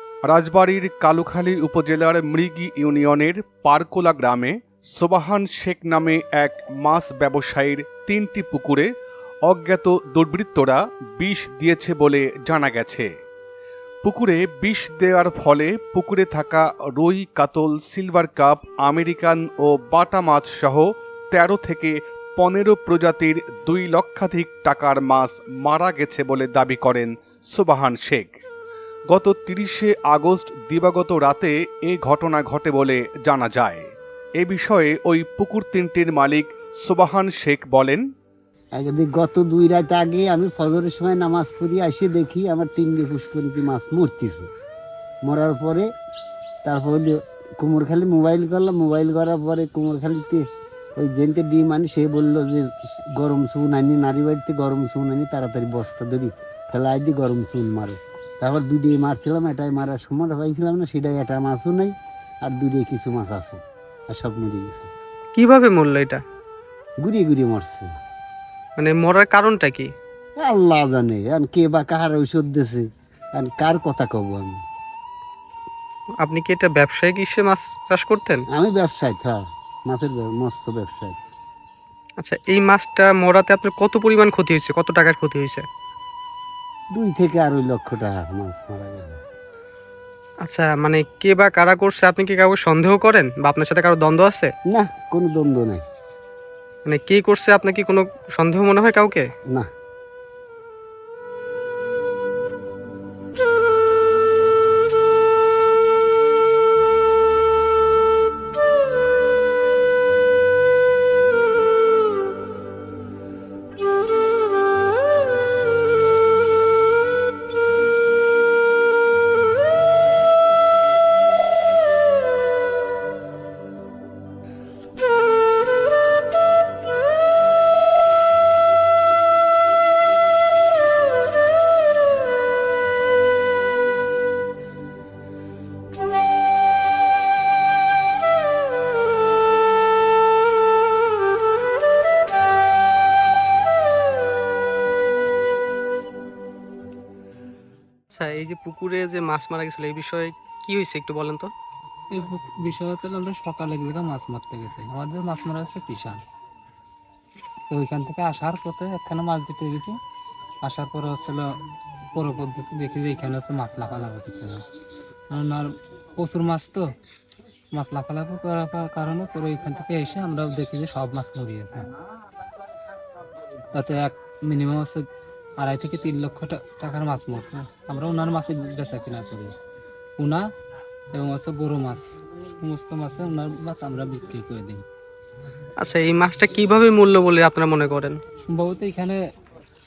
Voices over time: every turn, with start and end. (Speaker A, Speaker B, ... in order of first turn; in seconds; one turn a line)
Speaker A: 0.2-8.9
Speaker A: 9.4-13.1
Speaker A: 14.0-28.4
Speaker A: 29.1-38.0
Speaker B: 38.7-44.5
Speaker B: 45.2-45.9
Speaker B: 46.6-50.4
Speaker B: 51.0-61.9
Speaker B: 62.4-64.9
Speaker C: 65.3-66.2
Speaker B: 67.0-67.9
Speaker C: 68.8-69.9
Speaker B: 70.4-74.6
Speaker C: 76.2-78.4
Speaker B: 78.5-81.2
Speaker C: 82.2-85.6
Speaker B: 86.9-89.2
Speaker C: 90.4-94.5
Speaker B: 94.7-95.8
Speaker C: 96.8-99.3
Speaker C: 148.1-151.5
Speaker D: 152.1-156.2
Speaker D: 157.7-159.9
Speaker D: 160.6-161.4
Speaker D: 162.1-164.6
Speaker D: 165.3-166.8
Speaker D: 167.7-171.9
Speaker D: 173.7-175.1
Speaker D: 175.6-179.5
Speaker D: 180.2-180.4
Speaker D: 181.1-184.8
Speaker C: 185.8-188.2
Speaker D: 188.4-189.2